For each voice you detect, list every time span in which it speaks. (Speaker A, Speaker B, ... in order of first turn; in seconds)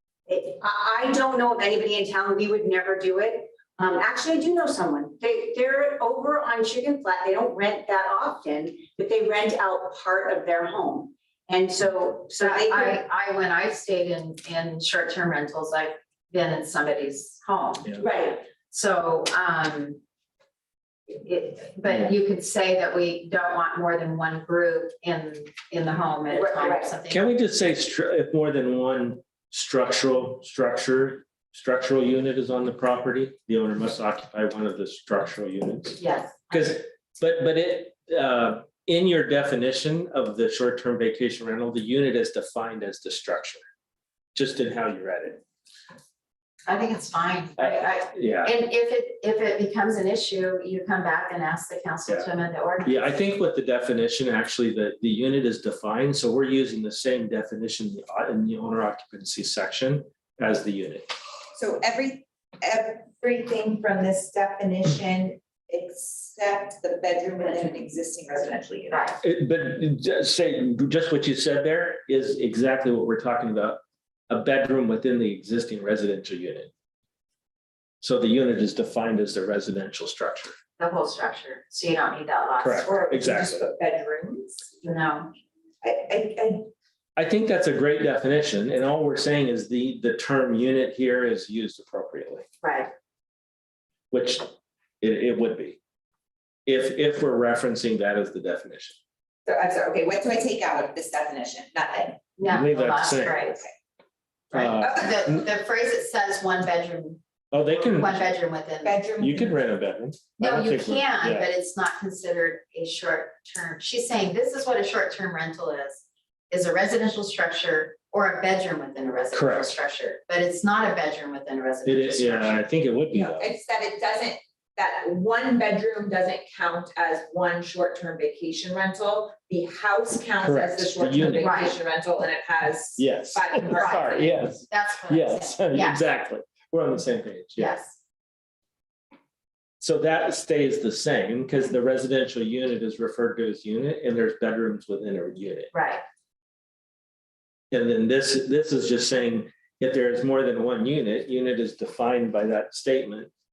Speaker A: 0.3-13.0
Speaker B: 12.4-17.9, 18.5-20.0, 21.1-27.3, 36.0-36.8, 46.7-53.1, 68.9-69.2, 80.8-82.9, 84.8-85.3, 92.6-92.9, 102.4-103.6, 104.5-107.2, 107.8-109.0, 110.4-122.6, 131.4-131.8, 133.7-136.0, 137.6-138.0, 145.7-146.0
Speaker C: 18.0-18.4, 26.3-26.9, 61.5-69.2, 82.8-84.8, 85.8-86.7, 99.5-102.2, 104.8-105.1, 108.8-109.6, 123.1-134.3
Speaker D: 27.1-36.0, 36.5-43.6, 44.3-45.4, 47.6-48.5, 52.8-61.1, 69.2-76.7, 78.0-80.5, 82.6-83.6, 87.2-92.5, 94.1-94.5, 95.0-95.8, 96.7-99.0, 102.4-103.5, 104.5-105.4, 107.5-108.2, 109.2-111.5, 119.3-119.7, 121.8-123.5, 130.4-131.7, 133.0-137.7, 139.8-145.7, 147.7-153.3